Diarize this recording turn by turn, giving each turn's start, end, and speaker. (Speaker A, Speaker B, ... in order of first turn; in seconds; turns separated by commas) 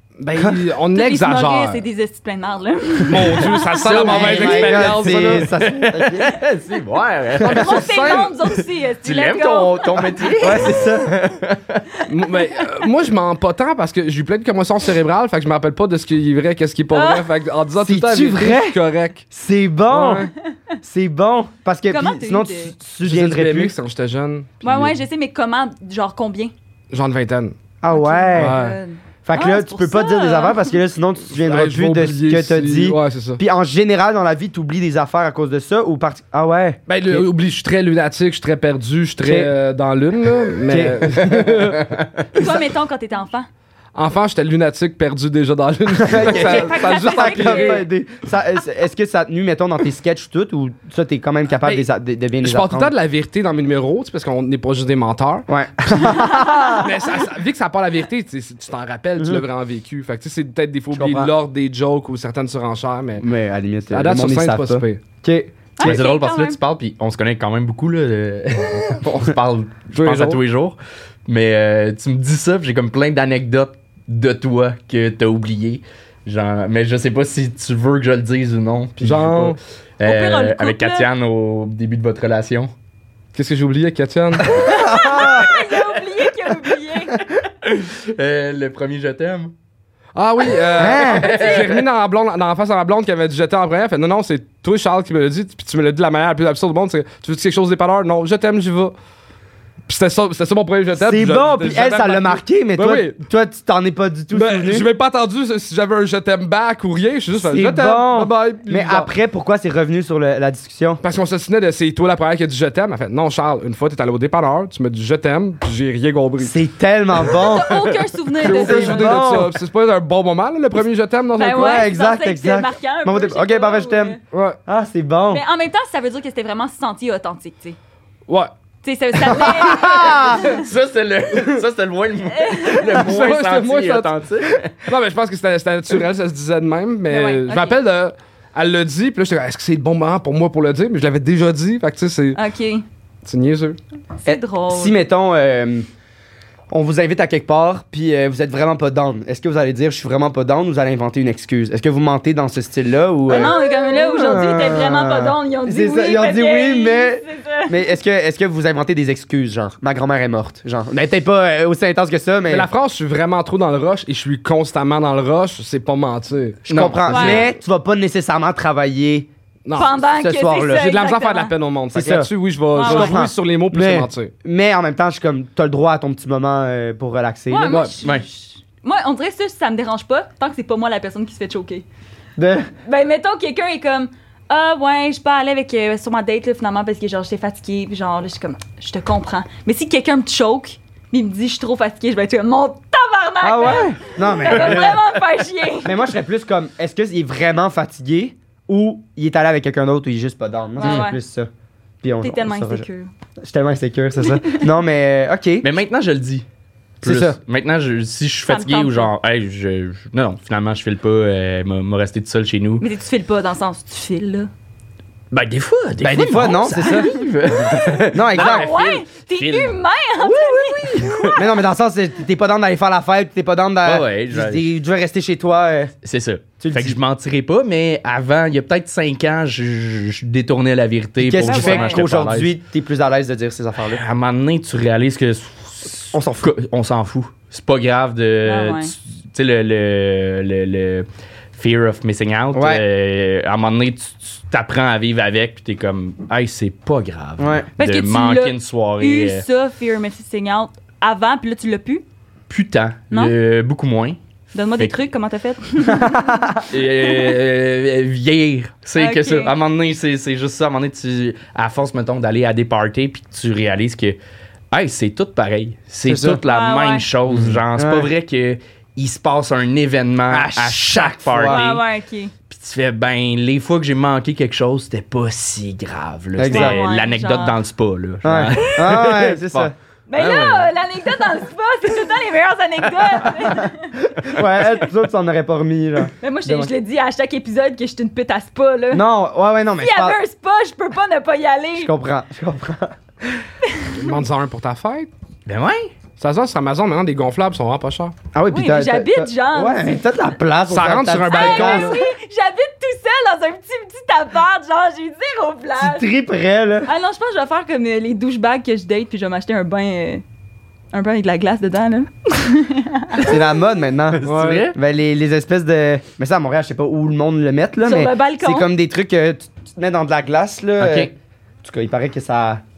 Speaker A: 0.2-1.8, Speaker B: 0.3-0.6, Speaker C: 0.9-4.6, Speaker A: 3.1-5.5, Speaker B: 3.8-6.4, Speaker D: 4.1-11.9, Speaker C: 7.4-10.1, Speaker A: 7.6-8.2, Speaker B: 10.4-11.1, Speaker A: 12.1-19.2, Speaker C: 16.9-17.3, Speaker B: 17.8-18.8, Speaker B: 19.3-20.3, Speaker A: 19.9-20.3, Speaker B: 20.8-23.7, Speaker C: 21.9-22.7, Speaker A: 23.0-25.0, Speaker C: 24.6-26.5, Speaker A: 26.9-27.6, Speaker B: 27.8-28.6, Speaker C: 27.9-30.8, Speaker A: 28.3-28.8, Speaker B: 29.2-37.2, Speaker A: 31.4-33.4, Speaker A: 36.9-41.9, Speaker B: 39.2-39.5, Speaker B: 40.7-41.6, Speaker C: 42.3-43.5, Speaker A: 43.9-47.8, Speaker B: 45.9-52.9, Speaker C: 46.3-47.8, Speaker A: 52.4-56.1, Speaker B: 55.5-56.9, Speaker C: 56.2-56.8, Speaker A: 56.8-63.2, Speaker B: 59.2-59.4, Speaker B: 60.9-61.3, Speaker B: 63.2-66.0, Speaker A: 63.9-65.0, Speaker C: 65.8-66.6, Speaker D: 65.8-82.7, Speaker A: 69.9-70.4, Speaker A: 79.0-79.6, Speaker C: 80.0-81.1, Speaker A: 83.3-84.5, Speaker B: 84.5-85.8, Speaker C: 84.5-87.3, Speaker D: 87.6-89.5, Speaker A: 90.1-98.9, Speaker D: 90.4-91.8, Speaker B: 90.8-91.4, Speaker A: 99.8-103.1, Speaker B: 100.9-104.9, Speaker A: 104.3-109.1, Speaker B: 107.3-111.0, Speaker A: 111.0-116.5, Speaker B: 116.4-117.9, Speaker C: 117.2-119.2, Speaker A: 118.4-121.9, Speaker B: 118.4-119.5, Speaker C: 121.3-124.2, Speaker B: 121.5-125.4, Speaker A: 124.3-124.6, Speaker C: 125.3-127.8, Speaker A: 128.3-128.5, Speaker C: 128.8-130.6, Speaker B: 129.2-130.5, Speaker D: 130.2-134.8, Speaker C: 132.3-133.0, Speaker A: 132.9-134.1, Speaker A: 134.8-142.4, Speaker C: 137.1-137.8, Speaker C: 142.3-142.8, Speaker A: 143.2-143.8, Speaker C: 144.2-144.9, Speaker B: 144.2-145.8, Speaker B: 146.7-162.7, Speaker C: 153.3-157.9, Speaker A: 162.5-167.5, Speaker D: 166.7-167.4, Speaker B: 166.7-169.3, Speaker C: 167.1-167.4, Speaker A: 169.7-169.9, Speaker C: 169.7-171.5, Speaker B: 169.8-170.9, Speaker A: 170.7-174.3, Speaker B: 171.9-177.8, Speaker C: 172.7-173.2, Speaker C: 177.5-181.8, Speaker B: 182.4-182.7, Speaker C: 182.8-196.0, Speaker B: 193.4-195.1, Speaker B: 195.8-201.5, Speaker C: 200.8-201.2, Speaker B: 202.0-202.8, Speaker C: 202.2-203.1, Speaker B: 203.4-205.7, Speaker C: 204.2-204.7, Speaker D: 205.6-206.4, Speaker D: 207.0-212.8, Speaker B: 207.0-207.4, Speaker C: 208.5-209.1, Speaker C: 212.8-214.5, Speaker D: 215.3-219.7, Speaker B: 216.0-217.1, Speaker C: 216.8-221.5, Speaker B: 218.1-218.8, Speaker B: 220.2-225.9, Speaker D: 220.8-221.4, Speaker D: 223.8-224.7, Speaker D: 226.0-232.5, Speaker B: 226.6-227.0, Speaker B: 231.2-234.0, Speaker C: 231.4-232.0, Speaker D: 233.8-249.4, Speaker B: 236.1-236.5, Speaker C: 238.4-238.9, Speaker B: 242.5-242.8, Speaker B: 247.4-247.6, Speaker C: 247.8-252.0, Speaker D: 252.5-254.2, Speaker C: 254.5-257.3, Speaker B: 256.1-256.6, Speaker D: 256.7-264.2, Speaker C: 259.0-259.5, Speaker D: 264.7-271.8, Speaker B: 266.1-266.4, Speaker C: 266.4-267.1, Speaker B: 267.3-268.1, Speaker B: 270.3-271.7, Speaker C: 271.4-272.3, Speaker D: 272.5-280.7, Speaker B: 276.4-276.8, Speaker C: 276.5-277.6, Speaker B: 278.2-279.7, Speaker C: 280.1-284.0, Speaker B: 283.6-286.7, Speaker C: 286.2-289.0, Speaker B: 288.9-290.2, Speaker C: 289.8-291.9, Speaker B: 291.8-293.4, Speaker C: 293.6-293.9, Speaker A: 293.9-295.1, Speaker D: 295.4-295.9, Speaker A: 296.2-298.1, Speaker B: 298.3-302.0, Speaker C: 298.5-300.2, Speaker A: 300.7-302.0, Speaker C: 301.3-306.1, Speaker B: 305.8-306.9, Speaker C: 306.8-310.2, Speaker C: 310.9-313.4, Speaker B: 313.2-321.1, Speaker D: 314.1-314.8, Speaker A: 314.2-314.7, Speaker C: 317.8-318.7, Speaker D: 320.8-321.1, Speaker B: 321.6-322.6